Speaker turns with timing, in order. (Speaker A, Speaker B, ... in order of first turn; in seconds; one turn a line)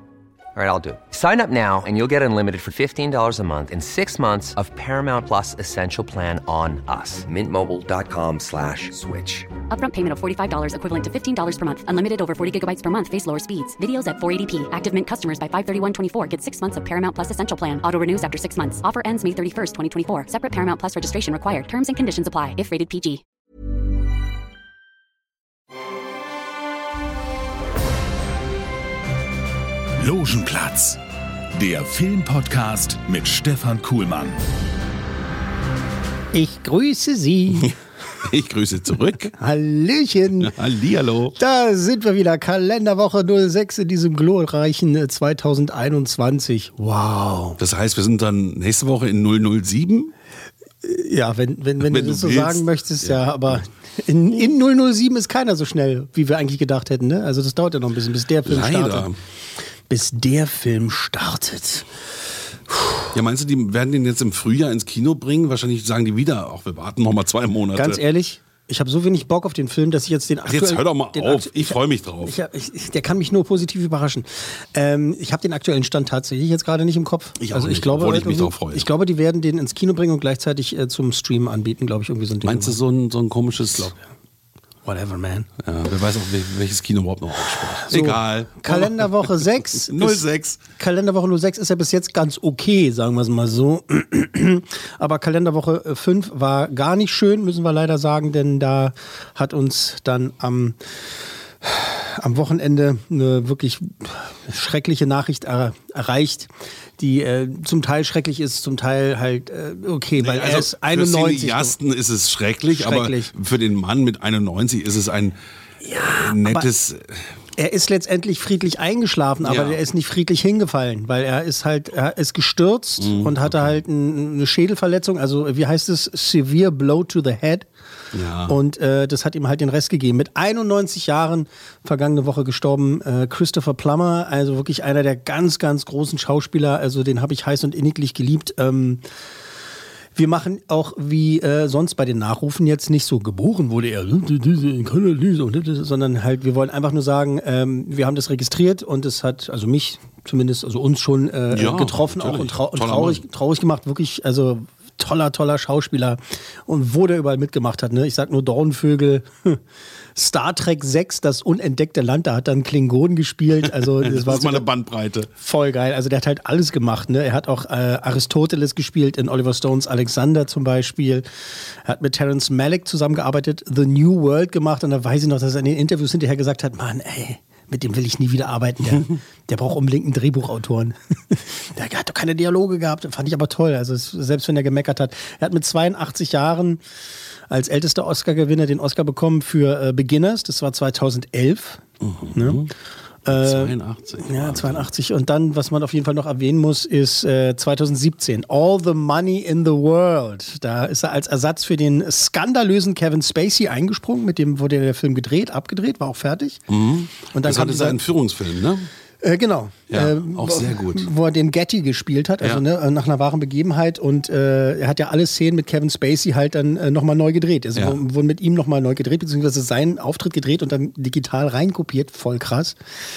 Speaker A: 0.5-9.5
Speaker B: 9.7-23.2
Speaker C: 30.0-31.0
Speaker C: 31.5-34.4
Speaker D: 36.3-37.7
Speaker E: 38.2-39.3
Speaker D: 39.2-40.5
Speaker E: 40.4-41.3
Speaker D: 41.4-47.6
Speaker E: 47.6-50.1
Speaker D: 50.8-59.1
Speaker E: 51.8-53.6
Speaker E: 58.4-59.2
Speaker D: 59.9-61.9
Speaker D: 62.7-63.1
Speaker E: 63.1-68.0
Speaker D: 67.7-82.8
Speaker E: 70.5-72.3
Speaker E: 77.4-78.9
Speaker E: 82.4-83.9
Speaker D: 84.8-85.5
Speaker E: 85.6-90.6
Speaker D: 87.5-90.2
Speaker D: 90.8-100.8
Speaker D: 101.6-111.7
Speaker E: 110.2-115.3
Speaker D: 112.7-113.3
Speaker D: 115.8-116.7
Speaker E: 115.9-117.2
Speaker D: 117.6-127.7
Speaker E: 119.4-119.8
Speaker E: 123.0-123.8
Speaker E: 128.1-128.6
Speaker D: 128.5-139.0
Speaker D: 140.1-159.6
Speaker E: 151.5-153.2
Speaker D: 160.2-164.7
Speaker E: 163.8-165.3
Speaker D: 165.4-171.3
Speaker D: 171.8-186.8
Speaker D: 187.5-191.8
Speaker E: 192.0-192.7
Speaker D: 192.3-192.6
Speaker D: 193.2-206.6
Speaker E: 193.3-194.9
Speaker E: 206.7-208.9
Speaker D: 207.3-208.0
Speaker D: 209.2-222.8
Speaker E: 209.9-211.1